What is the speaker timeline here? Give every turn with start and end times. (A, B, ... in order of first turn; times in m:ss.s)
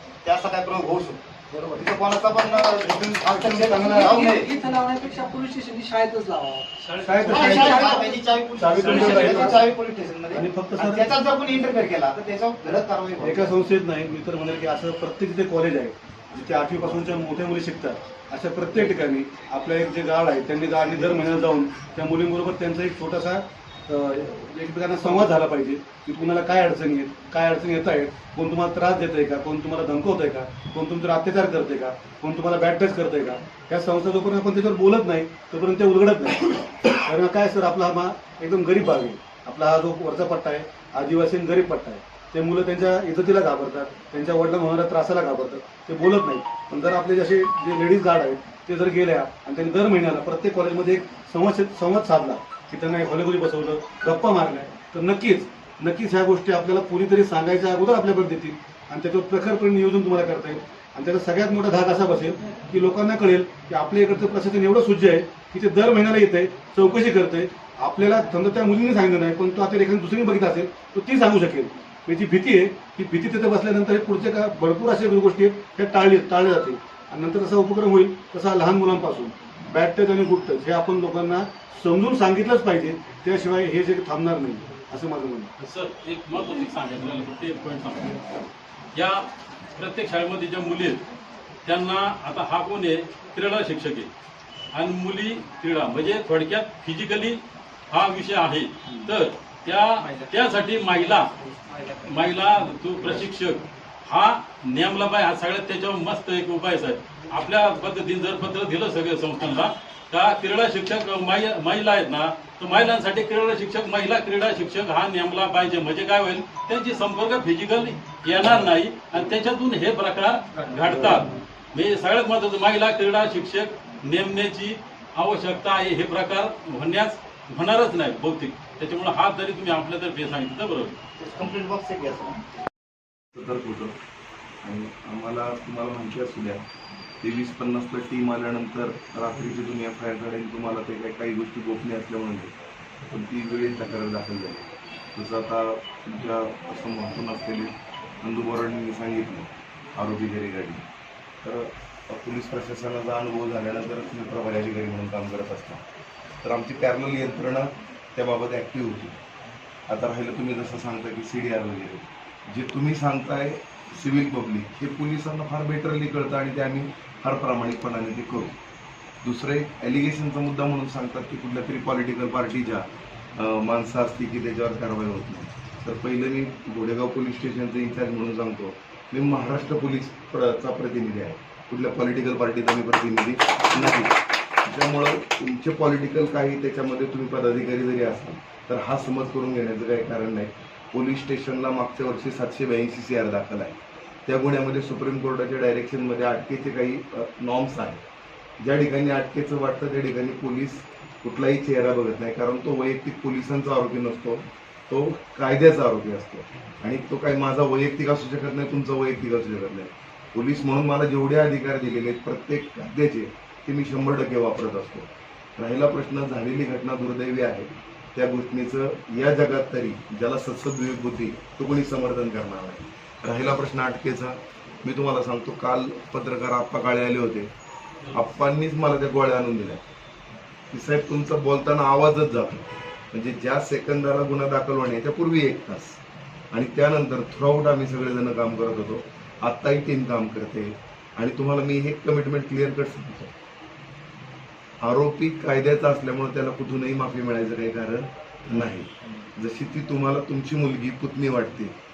0:00.2-0:01.2 A
0:01.5-0:01.8 B
0:01.8-0:04.5 A
0:03.2-0:04.3 B
0:03.8-0:08.2 C
0:07.0-0:09.6 B
0:07.2-0:13.5 A
0:08.9-0:09.6 C
0:10.3-0:11.1 B
0:13.2-1:25.5 B
1:25.6-1:28.2 D
1:28.9-1:31.0 D
1:31.6-1:34.1 D
1:34.7-1:41.3 D
1:41.4-1:42.1 C
1:42.0-2:11.0 D
2:11.2-2:12.4 A
2:13.4-2:14.0 E
2:14.6-2:16.6 E
2:17.2-2:22.5 E
2:23.1-2:30.8 E
2:31.4-2:35.8 E
2:36.4-2:39.2 E
2:39.9-2:48.6 E
2:49.2-3:18.0 E
3:18.6-3:47.5 E
3:48.1-3:49.8 E
3:50.7-3:56.0 E
3:56.5-4:03.3 E
4:04.8-4:11.8 E